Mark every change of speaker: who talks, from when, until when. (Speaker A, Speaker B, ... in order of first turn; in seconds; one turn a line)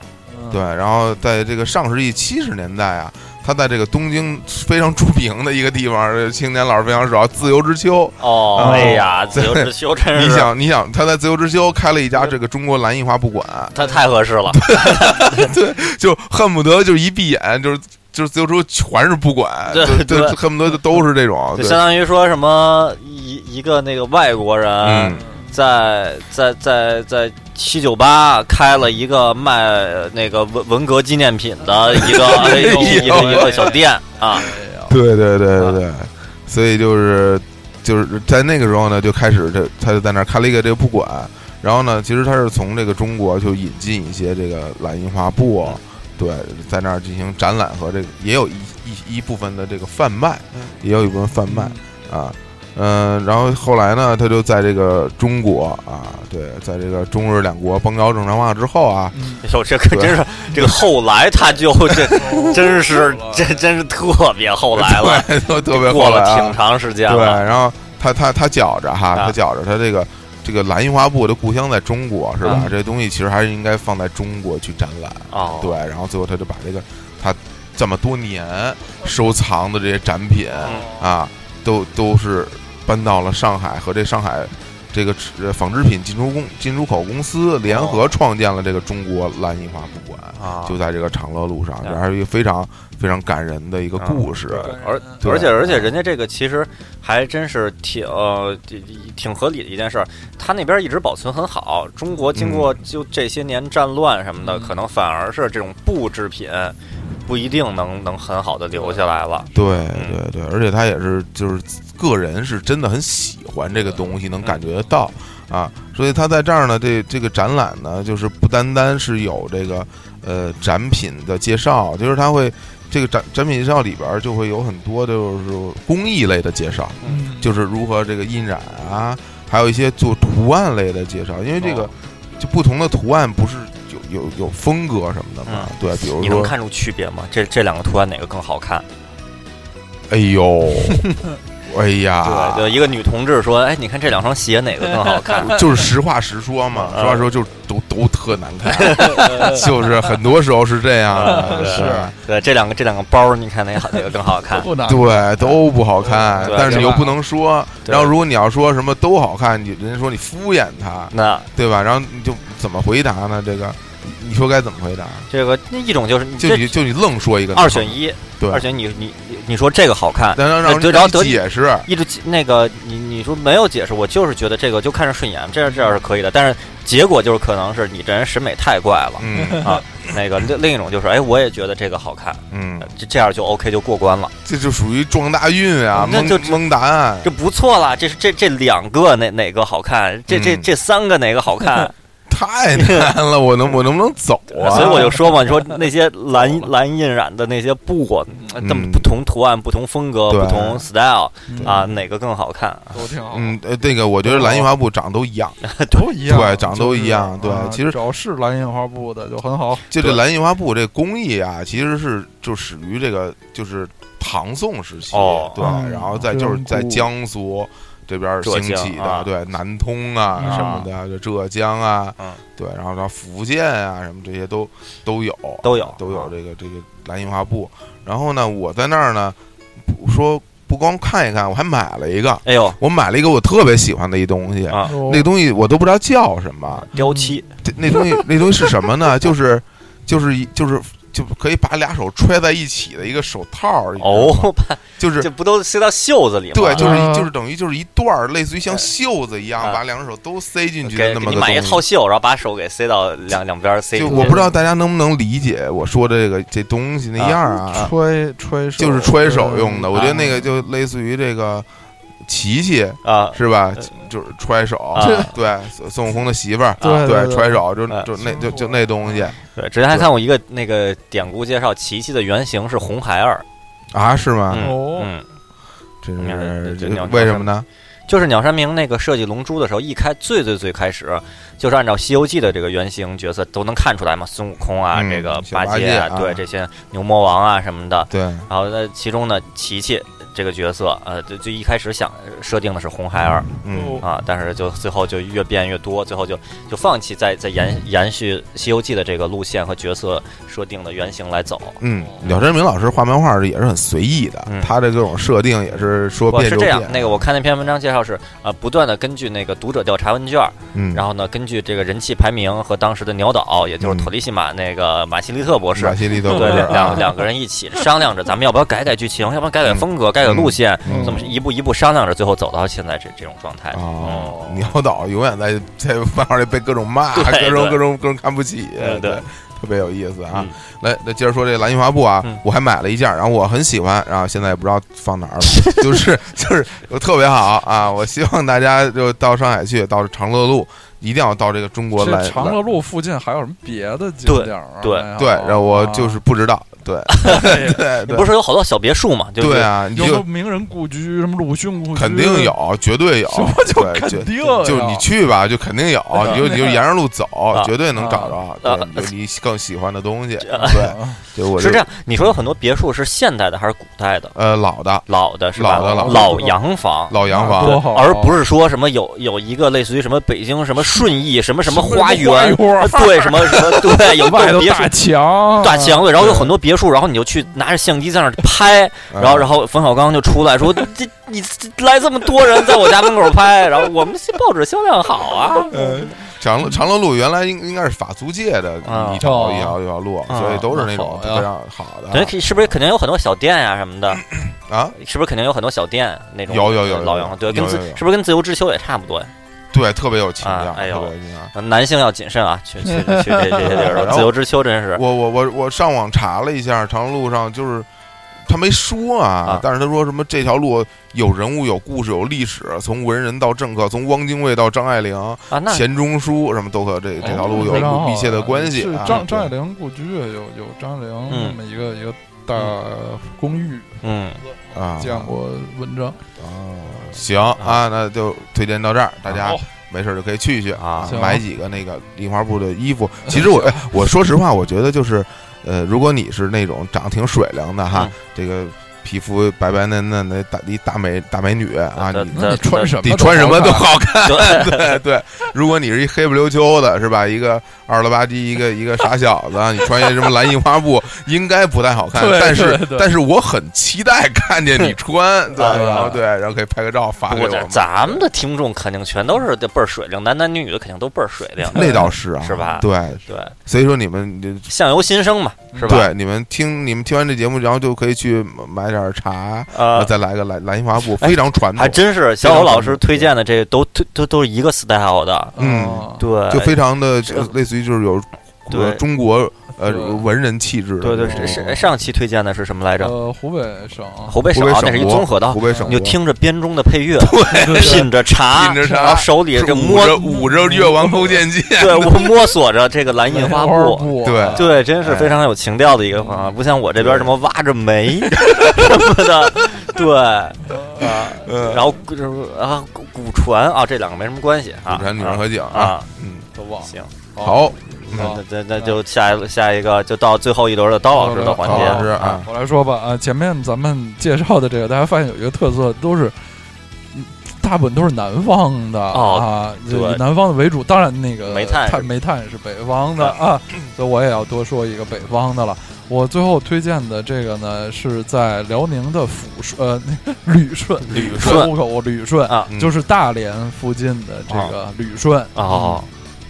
Speaker A: 0.3-0.7
Speaker B: 0.5-13.8
Speaker C: 8.2-10.5
Speaker A: 8.6-9.3
Speaker C: 13.7-15.5
Speaker B: 14.5-21.8
Speaker C: 19.7-20.4
Speaker C: 21.6-34.5
Speaker B: 24.8-25.2
Speaker A: 25.1-25.5
Speaker A: 31.7-35.0
Speaker B: 32.0-33.7
Speaker B: 34.9-59.2
Speaker A: 51.5-51.9
Speaker A: 59.1-59.5
Speaker C: 59.4-67.4
Speaker B: 59.9-60.8
Speaker B: 61.9-62.2
Speaker A: 62.1-63.7
Speaker B: 64.7-95.9
Speaker C: 72.4-72.7
Speaker A: 72.5-72.7
Speaker C: 75.3-75.8
Speaker A: 80.6-81.1
Speaker C: 87.7-88.2
Speaker C: 90.4-90.8
Speaker C: 94.0-110.2
Speaker A: 94.5-95.4
Speaker B: 102.3-102.8
Speaker A: 104.4-104.8
Speaker A: 108.7-109.0
Speaker B: 109.5-136.5
Speaker A: 127.0-127.5
Speaker C: 131.6-131.9
Speaker C: 135.5-138.9
Speaker B: 140.1-141.1
Speaker C: 140.8-141.2
Speaker B: 141.7-142.9
Speaker C: 142.2-145.7
Speaker B: 145.4-152.2
Speaker C: 146.7-147.3
Speaker C: 148.7-149.7
Speaker A: 149.1-149.6
Speaker C: 151.1-154.7
Speaker A: 151.2-152.1
Speaker A: 153.9-157.1
Speaker B: 154.8-165.3
Speaker C: 156.4-157.0
Speaker C: 157.8-158.1
Speaker C: 161.1-161.5
Speaker C: 165.3-166.8
Speaker B: 166.4-168.7
Speaker C: 167.5-184.3
Speaker B: 170.3-171.9
Speaker B: 179.2-179.8
Speaker A: 179.3-179.8
Speaker B: 182.5-182.9
Speaker B: 184.4-187.3
Speaker C: 186.0-186.7
Speaker C: 187.2-191.9
Speaker B: 190.3-190.7
Speaker B: 192.3-195.2
Speaker C: 192.8-193.1
Speaker C: 194.6-203.1
Speaker A: 194.6-195.5
Speaker B: 198.6-199.1
Speaker B: 200.3-200.9
Speaker A: 201.5-201.9
Speaker B: 201.6-201.9
Speaker A: 202.9-203.6
Speaker B: 203.3-205.6
Speaker A: 204.2-204.7
Speaker C: 205.6-206.1
Speaker A: 205.9-210.2
Speaker B: 206.2-208.0
Speaker B: 209.9-236.9
Speaker C: 215.1-215.8
Speaker A: 215.6-217.1
Speaker C: 218.4-219.3
Speaker A: 220.4-220.9
Speaker C: 220.4-220.8
Speaker C: 225.6-226.3
Speaker C: 232.4-232.8
Speaker A: 234.8-235.3
Speaker C: 236.9-238.2
Speaker A: 236.9-237.4
Speaker B: 237.6-245.3
Speaker C: 244.0-247.1
Speaker B: 246.5-251.8
Speaker A: 246.8-247.3
Speaker C: 250.8-254.4
Speaker B: 253.9-257.9
Speaker A: 254.0-254.6
Speaker C: 257.2-257.9
Speaker A: 257.7-260.5
Speaker B: 258.8-261.7
Speaker B: 262.2-269.4
Speaker C: 263.0-263.9
Speaker C: 264.9-265.3
Speaker A: 265.0-265.3
Speaker C: 266.8-267.1
Speaker A: 266.8-267.6
Speaker A: 268.2-269.4
Speaker C: 269.6-273.4
Speaker B: 273.9-274.7
Speaker C: 274.5-275.2
Speaker A: 274.6-275.1
Speaker B: 276.0-277.7
Speaker C: 276.2-277.5
Speaker C: 278.1-301.8
Speaker B: 284.9-286.4
Speaker B: 288.1-288.5
Speaker B: 293.6-294.0
Speaker A: 293.7-294.0
Speaker B: 301.8-307.2
Speaker C: 304.5-304.7
Speaker C: 306.3-324.7
Speaker B: 310.7-311.1
Speaker B: 313.8-314.1
Speaker B: 315.8-317.1
Speaker B: 319.6-321.3
Speaker A: 320.9-321.3
Speaker B: 323.7-342.6
Speaker C: 327.1-327.8
Speaker C: 328.8-329.2
Speaker A: 342.0-346.2
Speaker C: 344.3-345.1
Speaker B: 345.2-348.3
Speaker C: 347.1-349.7
Speaker A: 347.2-347.8
Speaker B: 349.4-350.2
Speaker A: 349.9-352.5
Speaker B: 351.9-361.9
Speaker A: 353.3-355.1
Speaker A: 356.2-356.8
Speaker A: 358.0-358.4
Speaker C: 358.6-359.1
Speaker C: 360.4-360.9
Speaker A: 360.6-361.2
Speaker C: 361.5-364.4
Speaker B: 364.4-366.5
Speaker C: 365.1-375.0
Speaker A: 365.8-366.6
Speaker B: 367.1-367.9
Speaker A: 367.3-368.4
Speaker A: 371.6-376.1
Speaker C: 375.6-386.2
Speaker B: 376.2-376.5
Speaker B: 379.1-379.5
Speaker B: 385.7-392.7
Speaker C: 388.8-389.2
Speaker A: 389.2-389.8
Speaker C: 390.3-390.7
Speaker A: 390.7-391.5
Speaker C: 392.1-394.2
Speaker B: 394.4-394.9
Speaker C: 394.9-399.3
Speaker B: 396.5-398.0
Speaker B: 399.7-401.5
Speaker C: 400.4-405.0
Speaker A: 403.1-404.1
Speaker B: 403.6-404.4
Speaker B: 404.9-407.9
Speaker B: 408.5-419.5
Speaker C: 415.5-415.8
Speaker A: 417.2-426.2
Speaker C: 421.3-421.6
Speaker C: 424.0-424.4
Speaker B: 424.7-425.3
Speaker B: 426.4-458.2
Speaker A: 429.4-429.6
Speaker C: 430.8-431.1
Speaker A: 431.1-431.4
Speaker A: 433.2-433.8
Speaker C: 441.9-443.3
Speaker A: 442.3-443.9
Speaker C: 444.2-445.0
Speaker A: 452.1-453.1
Speaker C: 455.6-456.2
Speaker A: 455.6-456.2
Speaker C: 457.3-463.6
Speaker B: 461.7-464.7
Speaker A: 461.7-462.1
Speaker C: 464.7-466.1
Speaker A: 465.7-466.1
Speaker B: 465.9-473.3
Speaker C: 469.7-470.1
Speaker C: 471.1-475.6
Speaker A: 475.6-476.2
Speaker B: 475.6-481.9
Speaker C: 476.2-477.5
Speaker C: 478.7-479.0
Speaker A: 479.8-480.2
Speaker C: 481.0-483.1
Speaker A: 481.2-481.7
Speaker A: 483.0-484.4
Speaker C: 484.3-490.2
Speaker B: 484.5-486.2
Speaker A: 485.6-486.0
Speaker B: 487.2-492.3
Speaker A: 487.5-488.1
Speaker A: 488.8-489.2
Speaker A: 490.2-491.4
Speaker C: 491.8-506.1
Speaker A: 493.3-494.7
Speaker B: 494.2-495.4
Speaker A: 496.1-496.6
Speaker B: 497.0-497.3
Speaker B: 498.4-499.0
Speaker A: 500.7-501.1
Speaker B: 501.0-501.9
Speaker B: 504.9-506.5
Speaker A: 506.6-509.0
Speaker C: 506.8-507.1
Speaker B: 507.4-508.4
Speaker C: 508.1-512.5
Speaker A: 511.1-516.4
Speaker B: 511.6-512.5
Speaker A: 517.1-536.0
Speaker C: 519.1-520.2
Speaker C: 521.5-522.1
Speaker C: 531.1-531.7
Speaker B: 531.1-531.7
Speaker B: 532.7-532.9
Speaker C: 534.5-534.8
Speaker C: 535.5-536.1